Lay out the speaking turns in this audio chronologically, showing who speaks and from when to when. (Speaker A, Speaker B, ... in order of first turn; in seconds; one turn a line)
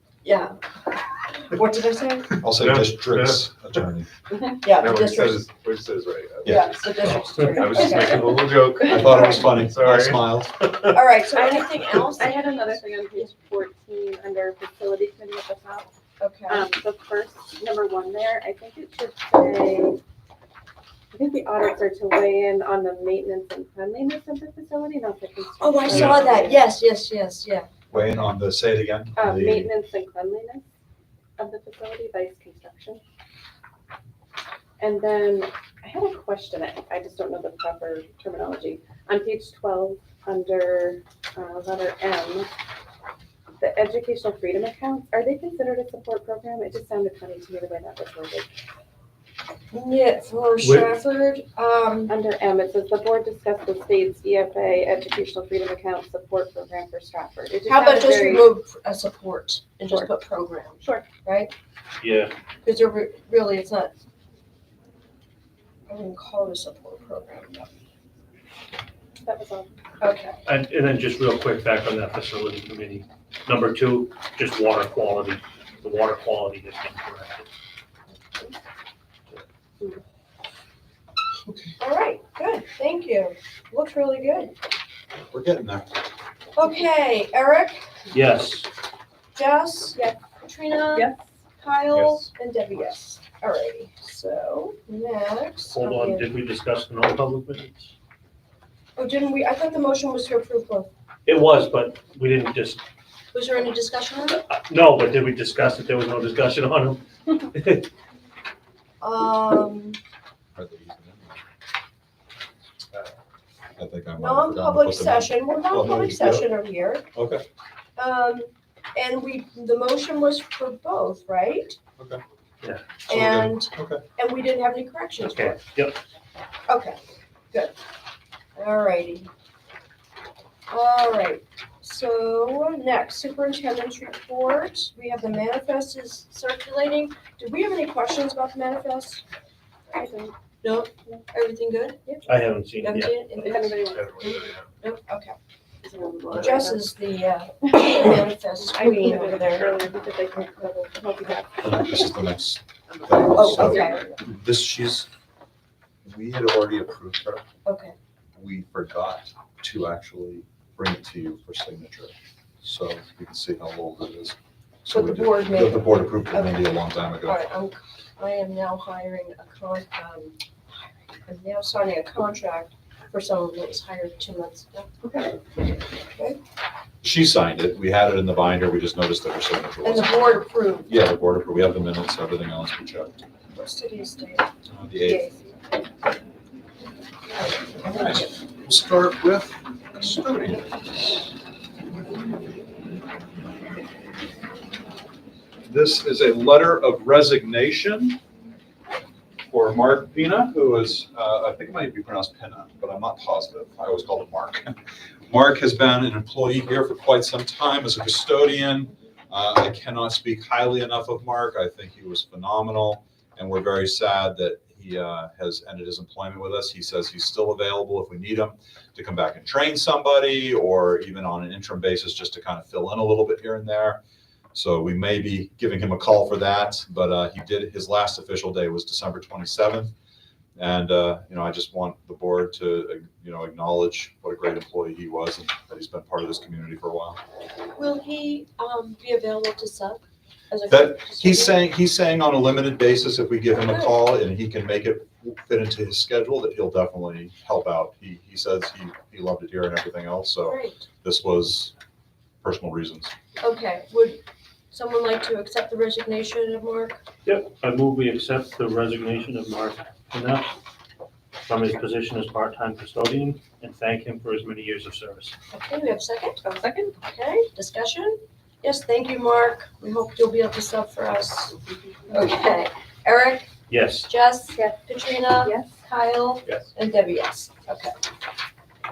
Speaker A: 0.2-0.6
Speaker A: 1.4-2.4
Speaker B: 2.4-4.1
Speaker C: 2.5-3.4
Speaker A: 4.6-5.4
Speaker C: 4.7-6.7
Speaker A: 6.4-8.5
Speaker B: 6.4-6.8
Speaker C: 7.5-10.3
Speaker B: 8.8-10.5
Speaker A: 10.9-13.3
Speaker D: 11.3-15.9
Speaker A: 16.2-16.7
Speaker D: 16.5-20.0
Speaker D: 21.1-26.6
Speaker A: 25.6-28.2
Speaker B: 27.9-29.7
Speaker D: 29.1-30.6
Speaker D: 31.4-33.0
Speaker D: 34.8-42.5
Speaker D: 43.6-48.5
Speaker A: 49.7-52.1
Speaker E: 50.6-50.9
Speaker D: 52.1-58.5
Speaker A: 57.6-61.5
Speaker D: 60.8-61.1
Speaker E: 62.0-62.3
Speaker A: 62.6-63.9
Speaker A: 65.9-67.7
Speaker D: 69.2-69.7
Speaker A: 70.0-70.4
Speaker E: 70.5-77.5
Speaker B: 81.4-81.8
Speaker A: 81.8-84.5
Speaker B: 85.3-85.9
Speaker A: 86.5-87.8
Speaker E: 88.1-88.7
Speaker A: 89.3-96.3
Speaker D: 90.9-91.3
Speaker E: 95.7-97.9
Speaker A: 99.0-100.9
Speaker E: 101.2-102.8
Speaker A: 103.3-104.4
Speaker E: 104.5-107.9
Speaker A: 109.0-110.0
Speaker B: 110.5-111.4
Speaker B: 113.8-116.5
Speaker A: 114.2-117.0
Speaker B: 117.1-117.4
Speaker A: 118.0-121.8
Speaker A: 123.1-125.6
Speaker B: 123.1-124.0
Speaker E: 125.2-126.0
Speaker A: 126.7-127.0
Speaker A: 128.6-129.3
Speaker A: 130.7-139.2
Speaker D: 139.9-140.3
Speaker A: 140.6-142.1
Speaker E: 142.2-143.3
Speaker A: 142.8-145.4
Speaker D: 143.4-144.4
Speaker C: 143.8-144.7
Speaker D: 145.8-146.8
Speaker A: 146.3-149.8
Speaker D: 147.7-152.2
Speaker B: 151.6-155.1
Speaker A: 153.3-154.1
Speaker D: 153.4-154.0
Speaker B: 156.0-157.4
Speaker A: 157.6-157.9
Speaker B: 158.3-167.4
Speaker A: 164.9-166.6
Speaker A: 167.2-170.3
Speaker A: 171.2-174.9
Speaker D: 175.0-175.4
Speaker B: 177.0-183.2
Speaker A: 179.8-180.9
Speaker A: 183.5-184.5
Speaker B: 184.7-185.3
Speaker A: 185.0-185.3
Speaker A: 187.4-188.3
Speaker B: 187.8-190.9
Speaker B: 195.7-198.2
Speaker B: 199.5-204.7
Speaker B: 205.3-224.0
Speaker B: 224.5-229.9
Speaker B: 230.6-237.2
Speaker A: 237.8-241.6
Speaker B: 240.7-251.7
Speaker A: 243.5-243.9
Speaker A: 250.4-250.8
Speaker B: 252.4-253.1
Speaker A: 253.4-254.2
Speaker A: 254.7-257.0
Speaker E: 257.2-260.5
Speaker E: 261.4-265.3
Speaker A: 265.5-266.4
Speaker D: 266.4-267.0
Speaker A: 267.0-271.6
Speaker A: 272.1-273.5
Speaker E: 273.7-274.1
Speaker A: 274.0-277.9
Speaker D: 275.4-275.7